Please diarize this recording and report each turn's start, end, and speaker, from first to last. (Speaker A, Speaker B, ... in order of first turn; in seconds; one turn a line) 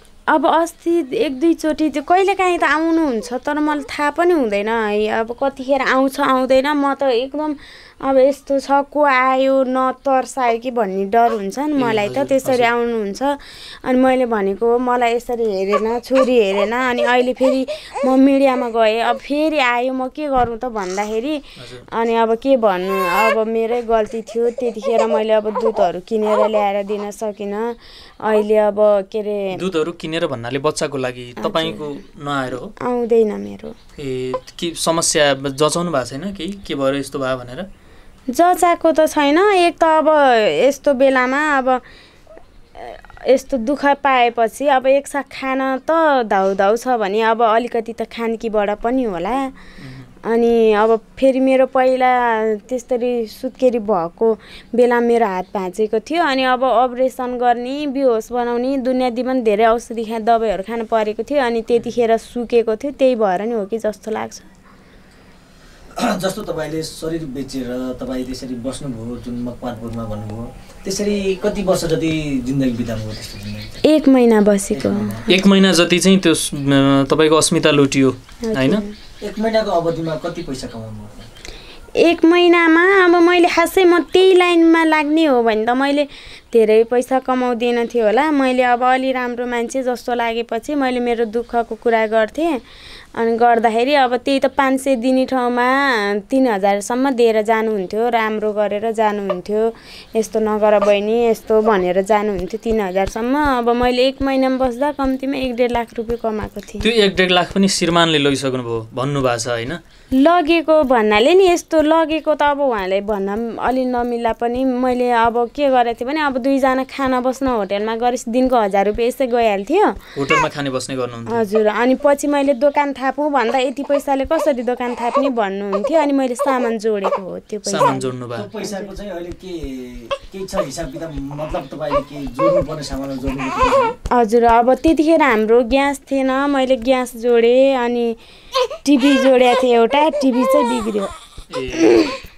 Speaker A: 0.3-29.6
Speaker B: 11.8-12.7
Speaker B: 21.6-21.9
Speaker B: 29.5-32.7
Speaker A: 31.4-31.8
Speaker A: 32.8-33.7
Speaker B: 34.0-37.7
Speaker A: 38.3-41.8
Speaker A: 42.8-49.5
Speaker B: 49.8-50.1
Speaker A: 50.2-64.5
Speaker C: 66.0-73.8
Speaker A: 73.8-75.1
Speaker C: 74.7-75.5
Speaker B: 75.3-78.8
Speaker A: 78.4-78.9
Speaker C: 79.2-81.3
Speaker A: 82.0-92.6
Speaker A: 93.2-106.9
Speaker B: 106.8-109.8
Speaker A: 110.1-120.0
Speaker B: 120.1-121.4
Speaker A: 121.3-128.9
Speaker B: 127.7-128.5
Speaker C: 128.3-133.9
Speaker A: 134.1-138.2
Speaker A: 138.8-141.1
Speaker B: 141.5-142.2
Speaker A: 141.8-142.1